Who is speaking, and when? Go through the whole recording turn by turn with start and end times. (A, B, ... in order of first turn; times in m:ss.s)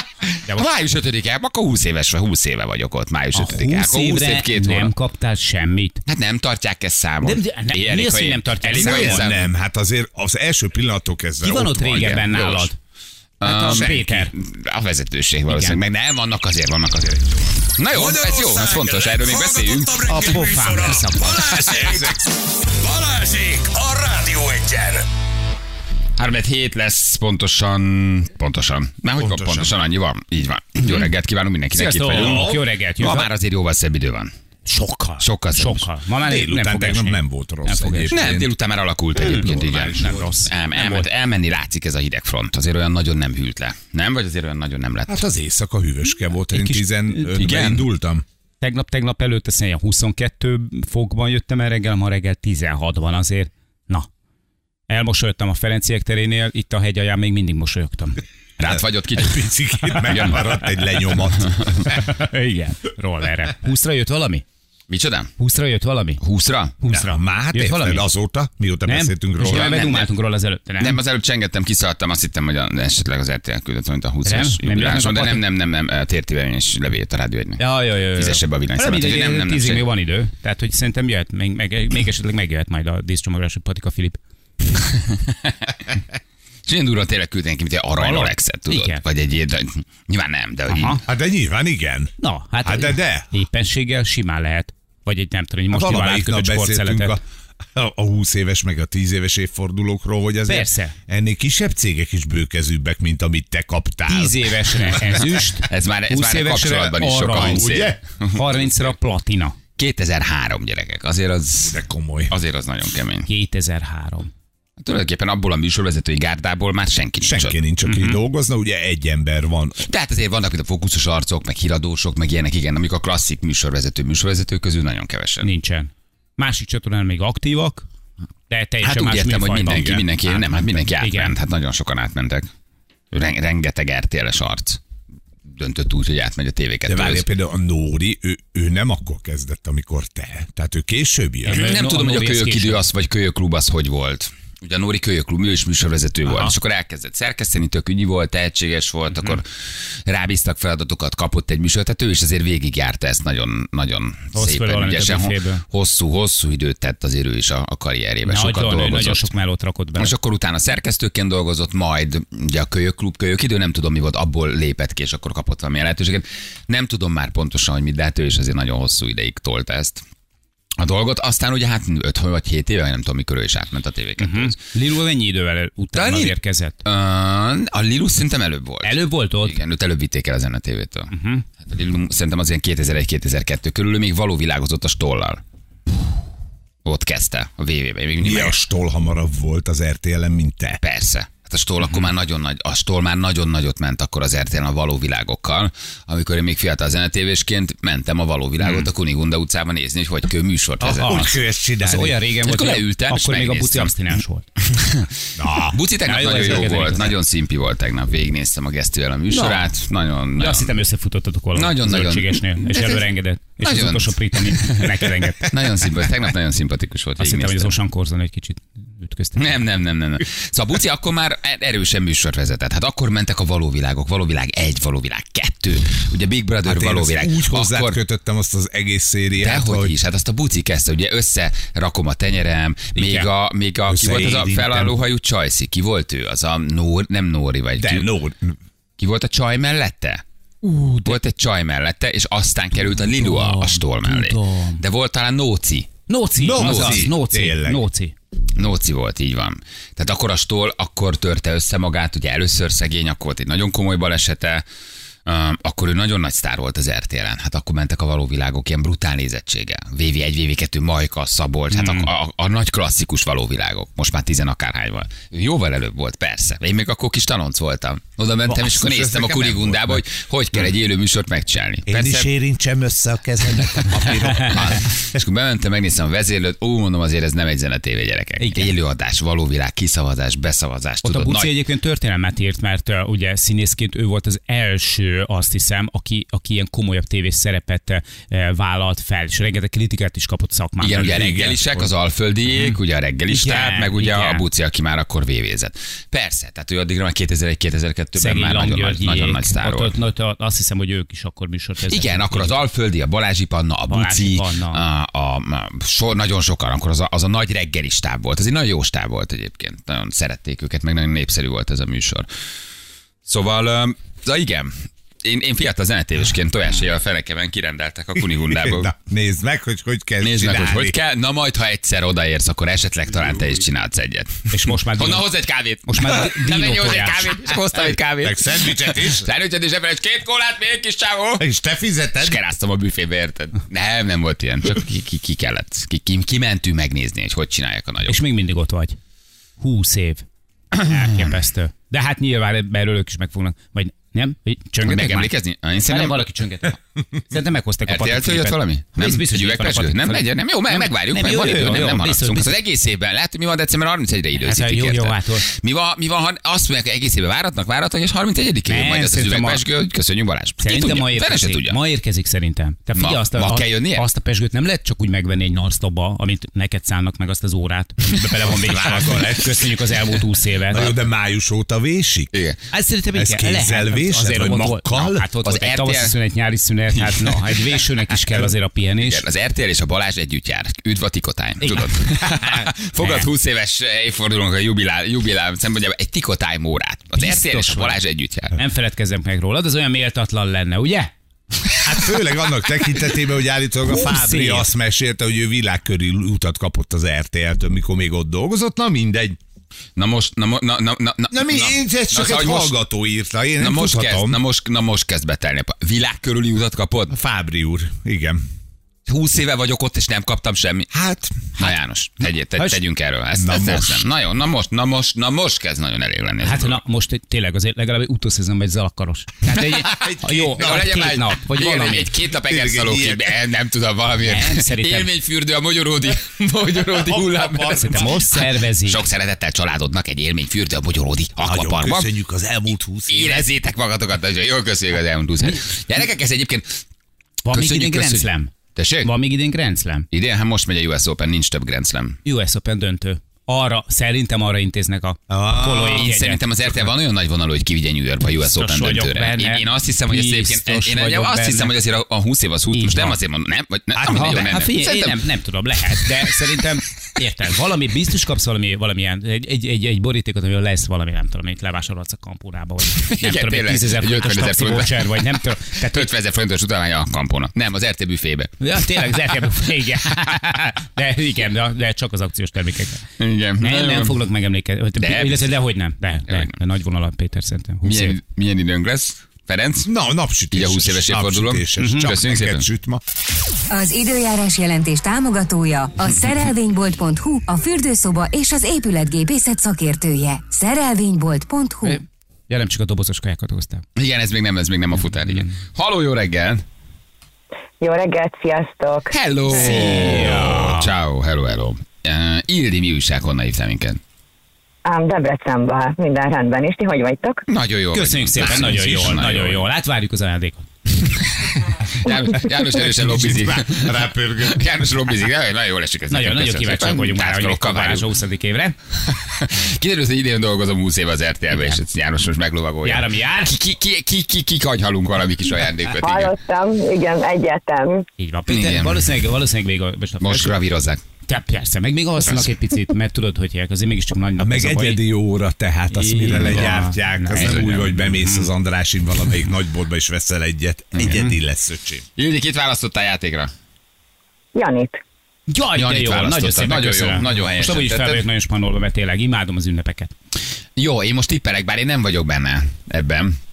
0:00.3-0:04.9 A
0:03.3-0:06.0 B
0:06.0-0:09.4 A
0:07.2-0:09.3 B
0:08.7-0:12.4 C
0:11.4-0:12.8 B
0:11.9-0:12.7 A
0:13.4-0:20.1 A
0:13.4-0:14.3 B
0:15.5-0:15.8 B
0:17.9-0:25.0 D
0:20.0-0:21.6 B
0:21.6-0:22.2 C
0:26.2-0:34.3 A
0:29.2-0:29.7 C
0:31.7-0:33.3 B
0:32.1-0:32.6 C
0:34.6-0:38.2 B
0:35.2-0:35.9 A
0:36.2-0:38.5 C
0:38.1-0:45.2 A
0:39.2-0:40.2 C
0:39.2-0:41.1 B
0:45.1-0:48.2 C
0:46.5-0:47.5 B
0:47.3-0:47.8 A
0:48.6-0:54.1 B
0:54.9-0:58.2 B
0:58.6-1:00.5 A
0:58.7-1:02.0 C
1:01.4-1:01.8 A
1:01.8-1:04.4 B
1:04.9-1:05.3 A
1:05.4-1:06.2 B
1:06.2-1:06.8 A
1:06.8-1:08.0 B
1:06.9-1:09.8 C
1:08.8-1:11.0 B
1:09.4-1:10.1 A
1:10.8-1:19.8 A
1:14.2-1:15.4 B
1:17.6-1:24.2 B
1:24.8-1:25.8 A
1:26.6-1:31.0 A
1:28.0-1:29.0 B
1:30.7-1:31.0 B
1:31.0-1:32.1 C
1:32.2-1:37.2 B
1:32.6-1:33.3 C
1:35.7-1:37.2 C
1:37.7-1:45.2 C
1:40.5-1:40.9 B
1:44.1-1:49.6 B
1:45.6-1:48.7 A
1:47.2-1:48.0 C
1:49.8-1:53.3 A
1:51.6-1:52.3 C
1:53.3-1:54.3 B
1:54.8-1:57.6 A
1:57.2-1:59.9 C
1:57.9-1:58.2 B
1:59.8-2:05.5 A
2:05.4-2:07.8 B
2:08.5-2:11.3 B
2:08.8-2:12.5 A
2:09.6-2:10.0 C
2:13.1-2:14.8 A
2:15.4-2:17.2 A
2:16.8-2:21.6 C
2:21.4-2:22.8 B
2:21.5-2:39.3 A
2:26.2-2:26.5 C
2:34.3-2:35.6 B
2:38.2-2:40.1 B
2:40.0-2:50.0 A
2:50.8-2:54.6 A
2:54.2-2:56.8 B
2:55.9-3:01.1 A
2:58.8-2:59.6 B
3:01.1-3:01.4 B
3:01.6-3:05.4 A
3:06.8-3:08.6 A
3:08.2-3:10.8 C
3:10.8-3:21.2 A
3:20.8-3:22.2 C
3:21.0-3:24.4 B
3:22.4-3:30.7 A
3:25.4-3:25.8 C
3:26.0-3:27.1 B
3:29.3-3:29.7 B
3:30.4-3:35.5 B
3:31.5-3:33.0 A
3:33.6-3:37.8 A
3:37.2-3:39.5 B
3:39.4-3:48.0 A
3:46.6-3:49.9 C
3:49.4-3:58.1 A
3:52.9-3:53.3 B
3:53.9-3:54.9 C
3:57.8-3:58.6 C
3:59.0-4:00.2 A
4:00.6-4:01.2 B
4:01.0-4:05.9 A
4:03.1-4:04.8 B
4:06.1-4:08.1 B
4:06.4-4:07.8 C
4:06.5-4:07.1 A
4:08.6-4:14.6 A
4:15.2-4:32.3 A
4:21.7-4:22.1 B
4:28.4-4:30.0 C
4:31.9-4:35.2 C
4:33.8-4:41.5 A
4:38.4-4:38.7 B
4:41.0-4:51.9 B
4:50.8-4:59.9 A
4:51.0-4:51.5 C
4:52.5-4:54.4 B
4:58.2-5:02.5 B
5:01.9-5:12.3 A
5:03.9-5:04.8 B
5:13.2-5:14.7 A
5:15.2-5:18.9 A
5:18.4-5:21.0 C
5:20.2-5:31.4 A
5:24.5-5:25.3 B
5:25.9-5:27.5 B
5:28.2-5:29.3 C
5:31.4-5:32.4 C
5:32.2-5:38.2 A
5:38.0-5:39.0 B
5:39.6-5:40.2 B
5:40.7-5:41.3 A
5:40.8-5:46.8 B
5:44.8-5:46.3 A
5:47.3-5:52.5 B
5:47.9-6:01.8 A
5:54.4-5:55.4 B
5:58.7-5:59.6 B
6:00.6-6:10.9 B
6:02.9-6:04.0 A
6:08.4-6:09.7 C
6:10.7-6:12.3 C
6:12.3-6:12.6 A
6:12.7-6:19.2 B
6:13.1-6:15.3 C
6:15.4-6:16.2 A
6:16.9-6:17.8 A
6:19.0-6:28.6 A
6:21.6-6:22.4 B
6:23.0-6:23.3 B
6:27.1-6:28.0 B
6:28.5-6:31.1 B
6:31.8-6:39.4 C
6:33.9-6:34.7 B
6:40.0-6:42.8 A
6:41.3-6:44.4 C
6:43.6-6:47.2 A
6:47.1-6:48.4 C
6:49.1-6:50.9 A
6:50.9-6:51.7 C
6:51.6-6:56.8 A
6:53.4-6:54.1 C
6:56.4-7:02.1 B
6:59.7-7:01.0 C
7:00.5-7:12.1 A
7:02.4-7:03.4 C
7:04.2-7:05.1 B
7:06.8-7:08.0 C
7:07.7-7:09.0 B
7:11.4-7:13.5 C
7:13.1-7:16.8 A
7:17.4-7:20.0 B
7:17.5-7:19.1 A
7:20.1-7:22.2 A
7:22.2-7:26.4 B
7:25.3-7:26.1 C
7:25.8-7:35.2 A
7:28.5-7:31.7 B
7:32.7-7:33.2 B
7:33.9-7:34.4 C
7:34.0-7:46.1 B
7:42.9-7:48.5 A
7:48.6-7:53.0 B
7:53.2-7:54.2 A
7:53.6-7:58.2 B
7:55.0-7:55.6 A
7:56.3-7:56.5 A
7:57.8-7:59.9 A
7:59.8-8:03.0 C
8:00.5-8:02.6 A
8:01.8-8:02.1 B
8:03.7-8:12.0 E
8:11.8-8:13.8 B
8:14.0-8:16.6 A
8:15.1-8:15.5 B
8:17.8-8:19.1 F
8:19.1-8:24.0 A
8:19.5-8:20.9 B
8:24.8-8:27.4 F
8:27.5-8:29.6 A
8:27.9-8:30.7 B
8:28.5-8:29.1 C
8:31.2-8:38.1 A
8:32.4-8:34.7 C
8:36.1-8:38.8 B
8:39.0-8:46.3 A
8:42.8-8:43.5 B
8:46.0-8:48.0 F
8:48.2-8:50.5 B
8:48.5-8:49.1 A
8:50.2-8:51.0 A
8:51.3-8:55.0 B
8:54.4-9:02.0 C
8:55.9-8:58.5 B
8:56.2-8:57.8 A
9:01.0-9:01.3 B
9:02.2-9:03.5 A
9:04.5-9:05.0 F
9:05.5-9:10.1 B
9:05.7-9:08.2 A
9:10.8-9:13.4 A